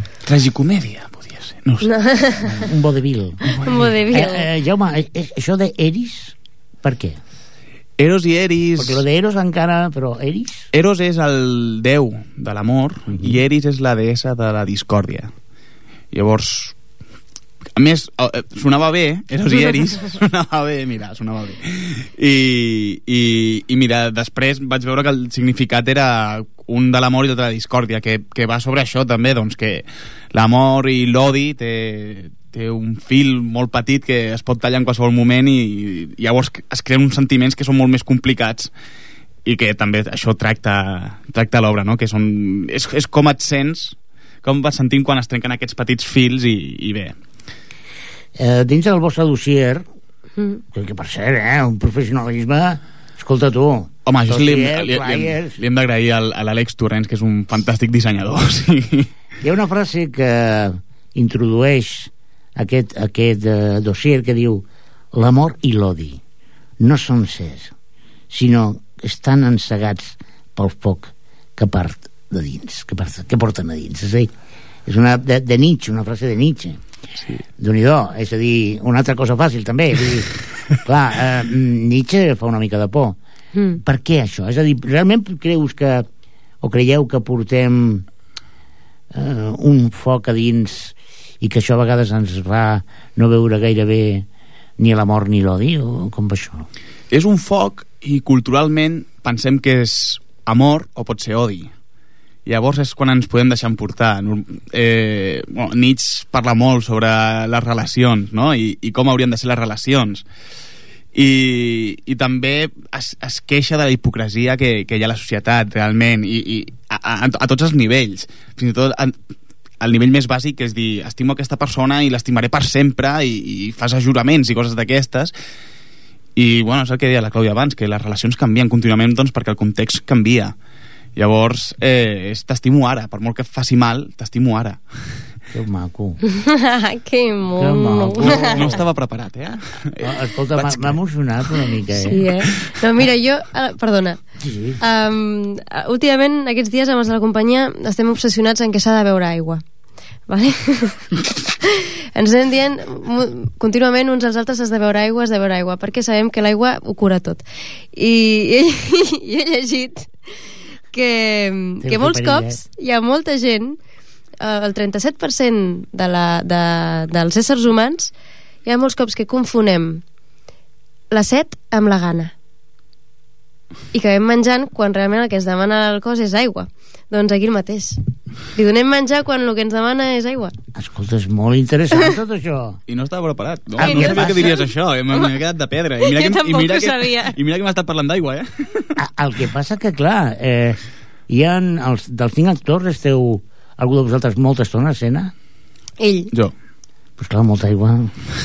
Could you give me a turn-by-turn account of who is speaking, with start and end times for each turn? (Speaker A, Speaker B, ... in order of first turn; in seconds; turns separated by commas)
Speaker A: 0.2-1.9, Speaker B: 1.8-2.7, Speaker C: 2.5-7.2, Speaker B: 3.5-4.5, Speaker A: 3.6-3.9, Speaker A: 8.0-9.0, Speaker C: 8.8-10.7, Speaker A: 10.7-15.3, Speaker A: 16.1-16.7, Speaker A: 17.7-38.7, Speaker A: 39.4-47.1, Speaker C: 48.4-49.8, Speaker C: 50.7-55.6, Speaker A: 54.0-59.1, Speaker C: 59.4-66.2, Speaker C: 66.8-67.7, Speaker C: 68.3-74.3, Speaker C: 74.8-76.8, Speaker C: 77.6-83.2, Speaker B: 83.5-83.8, Speaker C: 83.8-86.0, Speaker C: 86.6-88.0, Speaker C: 89.1-94.3, Speaker C: 94.8-96.7, Speaker A: 97.1-101.7, Speaker A: 102.4-110.2, Speaker A: 111.1-119.1, Speaker A: 119.8-125.3, Speaker A: 126.3-130.5, Speaker A: 131.1-134.8, Speaker C: 135.5-136.2, Speaker B: 136.3-138.7, Speaker C: 137.6-138.8, Speaker A: 138.2-140.9, Speaker C: 140.0-142.2, Speaker B: 141.9-144.2, Speaker C: 144.4-144.8, Speaker B: 144.8-149.6, Speaker B: 150.3-157.4, Speaker B: 157.9-160.1, Speaker B: 160.9-163.8, Speaker C: 161.8-162.6, Speaker B: 164.4-168.1, Speaker B: 168.6-170.0, Speaker B: 171.1-172.3, Speaker B: 173.9-178.0, Speaker B: 178.5-180.5, Speaker C: 180.7-182.8, Speaker A: 182.9-188.9, Speaker C: 183.8-184.5, Speaker B: 183.8-185.3, Speaker B: 186.0-187.3, Speaker C: 189.0-195.3, Speaker B: 196.0-196.3, Speaker C: 197.2-198.2